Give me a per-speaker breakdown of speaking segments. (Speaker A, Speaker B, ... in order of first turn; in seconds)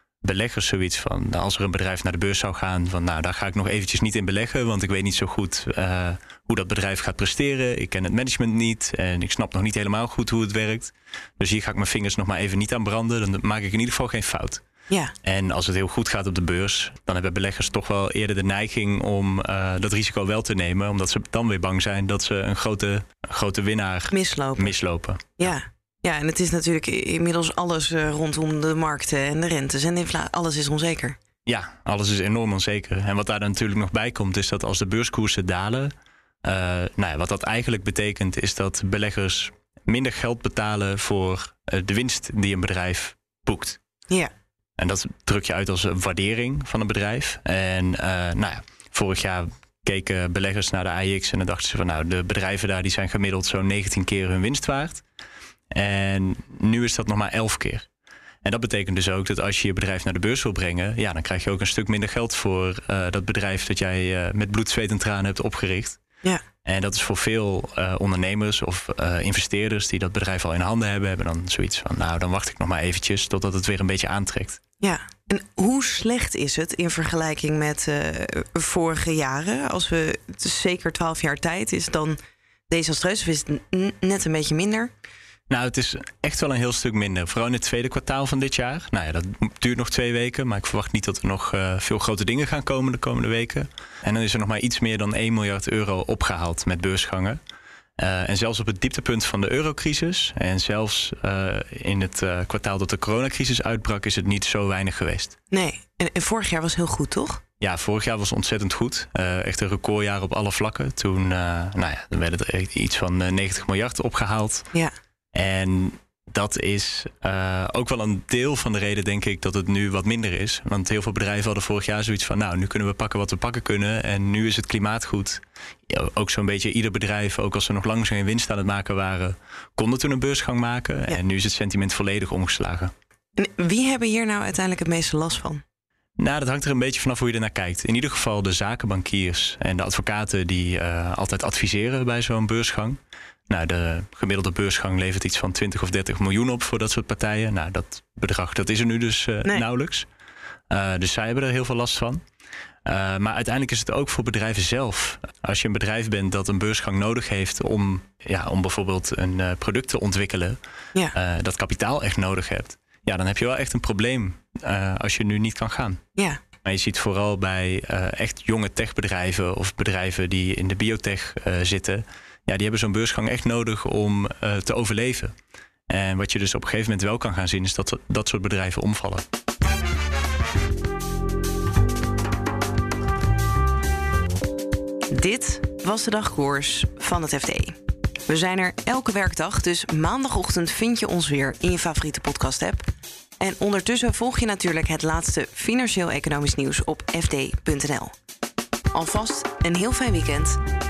Speaker A: 0.2-14.6, 15.2-25.5, 31.4-35.9, 36.4-43.8, 44.8-55.0, 55.7-57.9, 58.4-66.0, 66.6-74.6, 85.5-97.4, 98.0-105.3, 107.6-114.6, 115.3-132.9, 136.2-143.0, 143.5-150.1, 150.7-152.2, 152.8-160.6, 161.1-166.0, 166.6-175.3, 175.9-179.2
Speaker B: 24.1-24.7, 25.4-31.2, 74.8-82.2, 82.7-84.9, 105.5-107.4, 133.4-135.6, 185.1-187.8, 188.3-192.9, 193.4-198.1, 198.9-200.6